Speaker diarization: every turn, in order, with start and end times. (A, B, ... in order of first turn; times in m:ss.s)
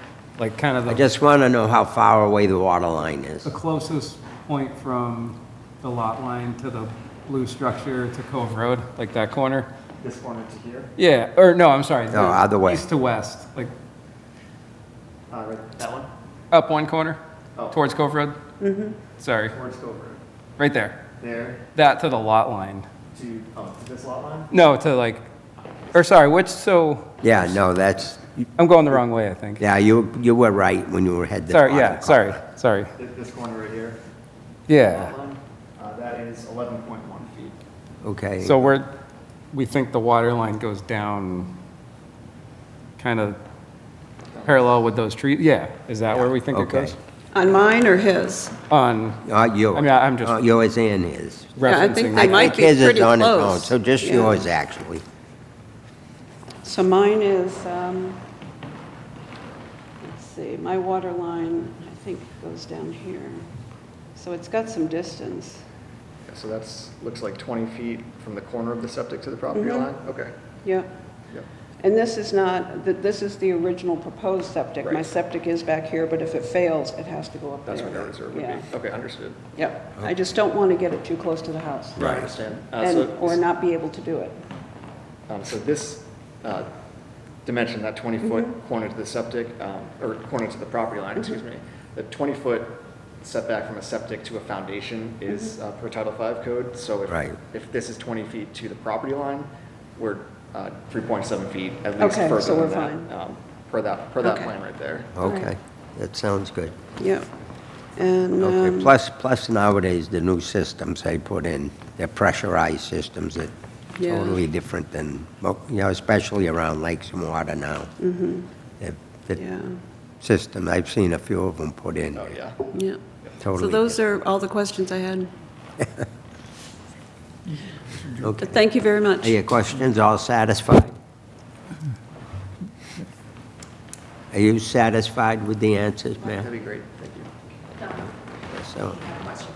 0:00.4-0:01.0 A
0:00.8-0:03.5 B
0:03.4-0:09.7 A
0:10.0-0:10.9 C
0:11.0-0:13.7 A
0:12.1-0:12.8 B
0:15.3-0:16.1 C
0:16.5-0:18.4 A
0:18.6-0:19.0 D
0:19.2-0:19.5 A
0:19.4-0:20.2 C
0:20.6-0:21.0 A
0:21.2-0:21.6 C
0:21.7-0:22.9 A
0:23.1-0:24.5 C
0:24.5-0:25.2 A
0:25.9-0:27.2 A
0:27.2-0:28.3 B
0:28.6-0:29.6 A
0:29.6-0:32.4 B
0:31.5-0:32.9 A
0:33.0-0:34.0 C
0:34.7-0:35.1 A
0:34.7-0:37.6 C
0:38.0-0:38.7 B
0:38.4-0:39.0 A
0:39.5-0:41.6 A
0:43.0-0:43.4 A
0:44.3-0:44.6 C
0:44.4-0:47.0 A
0:46.1-0:47.0 B
0:47.3-0:48.6 D
0:48.7-0:50.4 A
0:49.2-0:51.5 B
0:51.6-0:52.6 A
0:51.6-0:54.5 D
0:52.1-0:55.0 B
0:56.6-0:58.2 D
1:00.0-1:03.4 D
1:04.1-1:05.6 D
1:06.2-1:10.3 C
1:09.5-1:09.9 D
1:10.6-1:10.9 D
1:11.8-1:18.6 D
1:14.8-1:15.1 C
1:17.6-1:19.4 C
1:19.5-1:22.2 D
1:22.0-1:23.4 C
1:22.0-1:22.3 B
1:22.8-1:24.4 D
1:25.3-1:26.7 C
1:27.4-1:45.1 C
1:28.2-1:28.5 D
1:37.1-1:37.4 B
1:42.0-1:43.1 D
1:44.2-1:44.5 D
1:45.2-1:46.8 B
1:45.2-1:45.5 D
1:47.0-1:47.3 D
1:48.0-1:48.9 D
1:48.4-1:57.9 B
1:54.0-1:54.4 D
1:58.0-1:58.5 D
1:58.8-1:59.4 B
1:59.4-1:59.8 D
2:00.2-2:02.3 B
2:02.1-2:02.6 C
2:02.7-2:03.0 D
2:03.4-2:04.0 B
2:03.5-2:05.3 D
2:08.1-2:08.6 B
2:08.4-2:09.4 D
2:09.2-2:11.0 B
2:14.3-2:16.5 B
2:16.3-2:17.3 C
2:18.4-2:19.4 B